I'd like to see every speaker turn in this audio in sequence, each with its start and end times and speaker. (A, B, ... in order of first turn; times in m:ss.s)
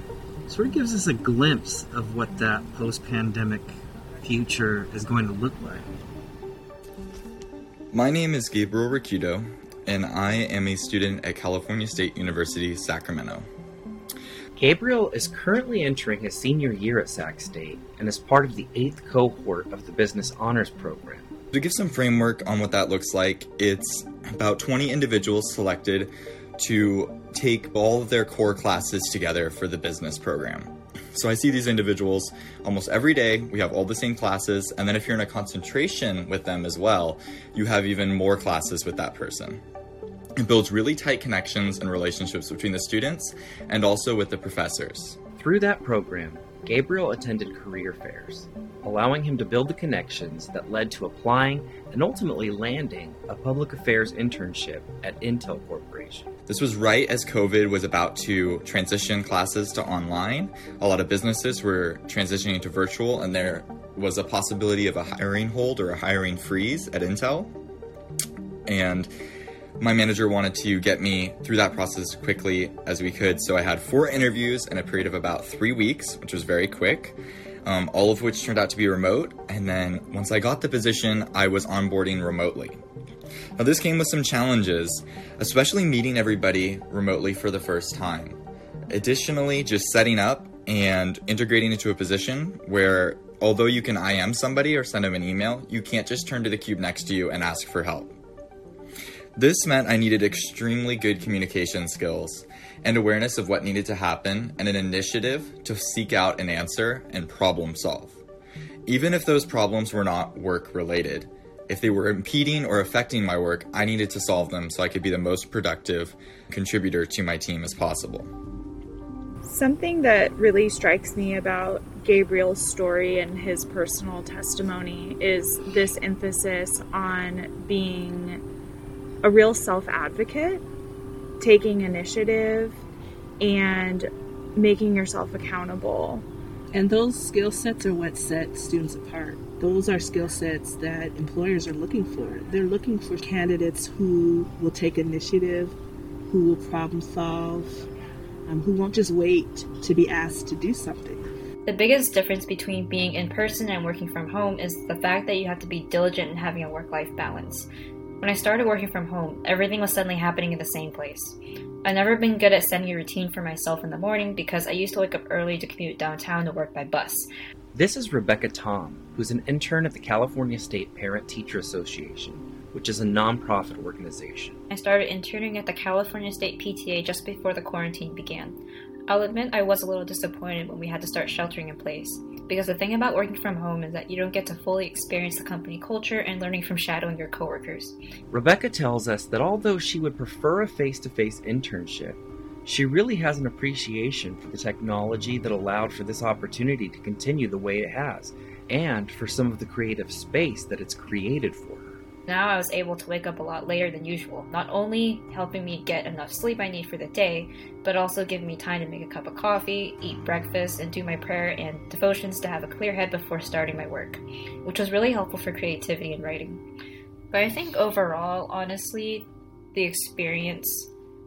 0:00.5-0:05.9 A
0:07.9-0:13.4 B
0:14.6-0:21.3 C
0:21.5-0:39.6 B
0:40.4-0:45.2 B
0:45.4-0:56.3 C
0:56.5-1:07.5 B
1:08.7-1:09.1 B
1:09.8-1:22.8 B
1:23.6-1:28.4 B
1:28.9-1:38.1 B
1:39.4-1:48.2 B
1:48.9-1:58.3 B
1:59.4-2:08.4 D
2:09.2-2:10.6 D
2:11.4-2:12.8 D
2:13.4-2:16.2 D
2:16.7-2:25.7 E
2:26.3-2:27.9 E
2:28.5-2:31.2 E
2:31.6-2:37.6 F
2:38.2-2:41.3 F
2:41.8-2:47.2 F
2:47.7-2:54.6 C
2:54.8-2:58.6 F
2:59.1-3:07.9 F
3:08.3-3:22.0 C
3:22.3-3:36.6 F
3:37.3-3:40.9 F